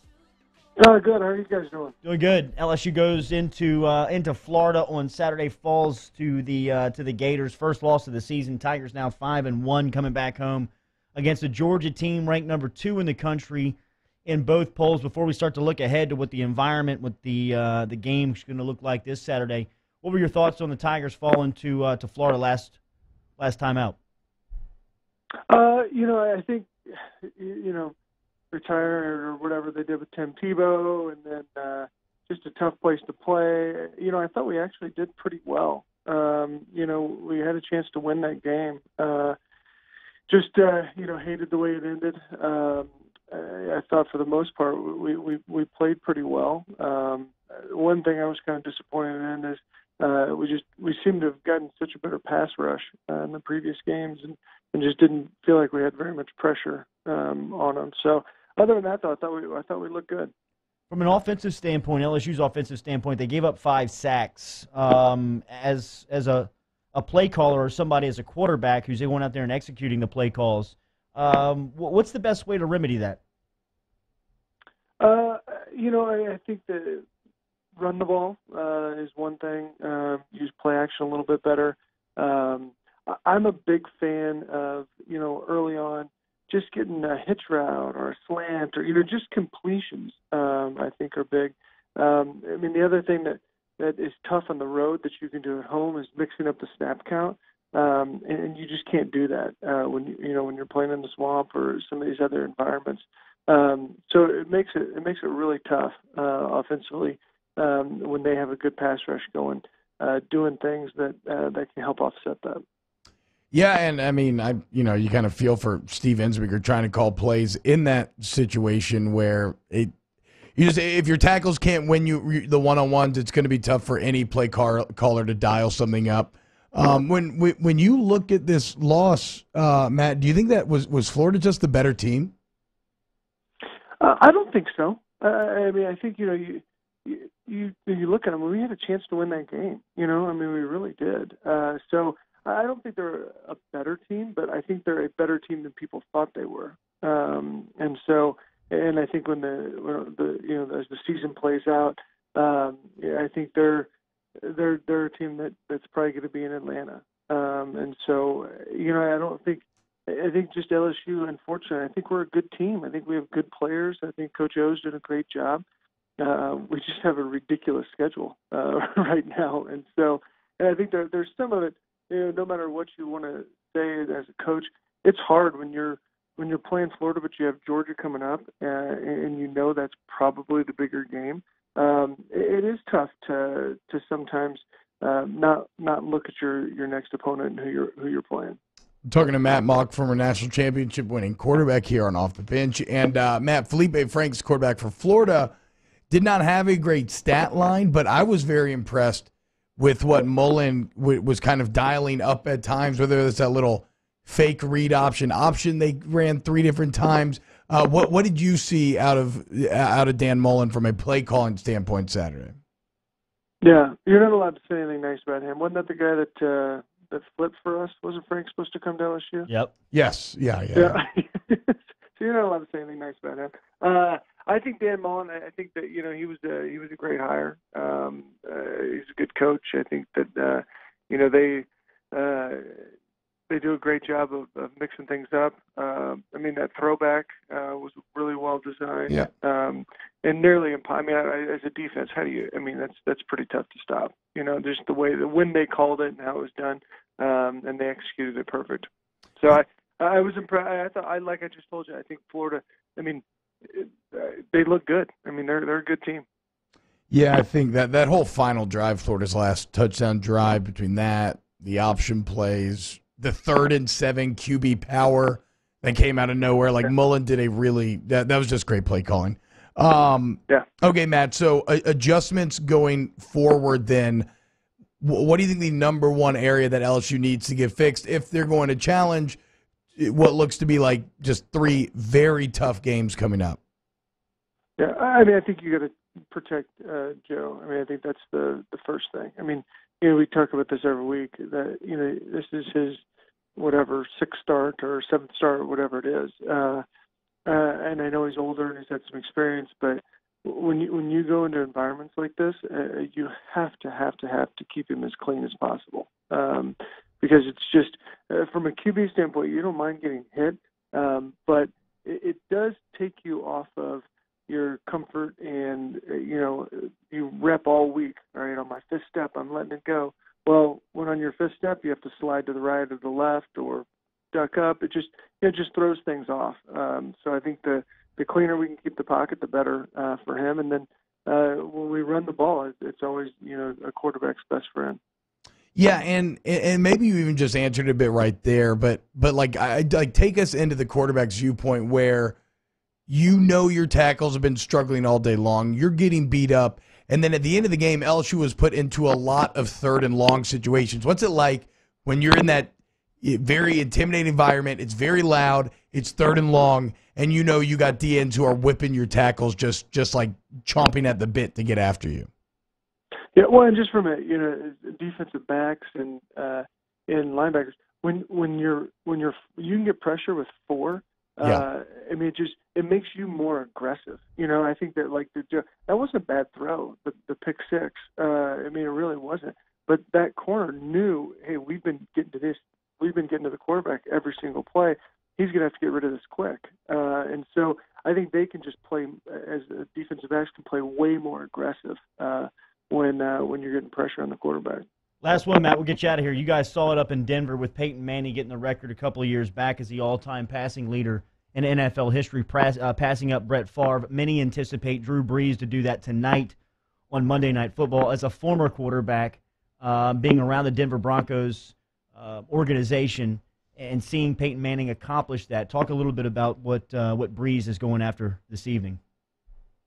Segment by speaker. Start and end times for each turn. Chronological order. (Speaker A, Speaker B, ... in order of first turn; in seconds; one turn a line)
Speaker A: 0.8-1.9
Speaker B: 2.0-22.8
Speaker B: 23.4-24.0
Speaker A: 25.5-27.9
Speaker A: 28.5-39.4
Speaker A: 40.3-60.3
Speaker B: 60.9-73.2
Speaker A: 75.0-77.0
Speaker A: 77.8-112.6
Speaker C: 113.5-119.9
Speaker C: 120.5-132.3
Speaker A: 134.0-153.9
Speaker A: 154.4-165.6
Speaker A: 166.2-188.6
Speaker C: 189.0-195.5
Speaker C: 196.1-212.6
Speaker A: 213.6-219.5
Speaker B: 219.5-219.7
Speaker C: 219.9-221.0
Speaker A: 220.7-232.9
Speaker A: 233.5-248.9
Speaker A: 249.4-256.2
Speaker C: 257.1-274.3
Speaker C: 275.0-279.4
Speaker C: 279.9-283.6
Speaker A: 284.8-293.0
Speaker A: 293.6-296.8
Speaker A: 297.4-335.0
Speaker C: 335.8-342.4
Speaker C: 343.1-362.3
Speaker A: 363.4-394.9
Speaker B: 395.2-406.6
Speaker B: 407.1-419.0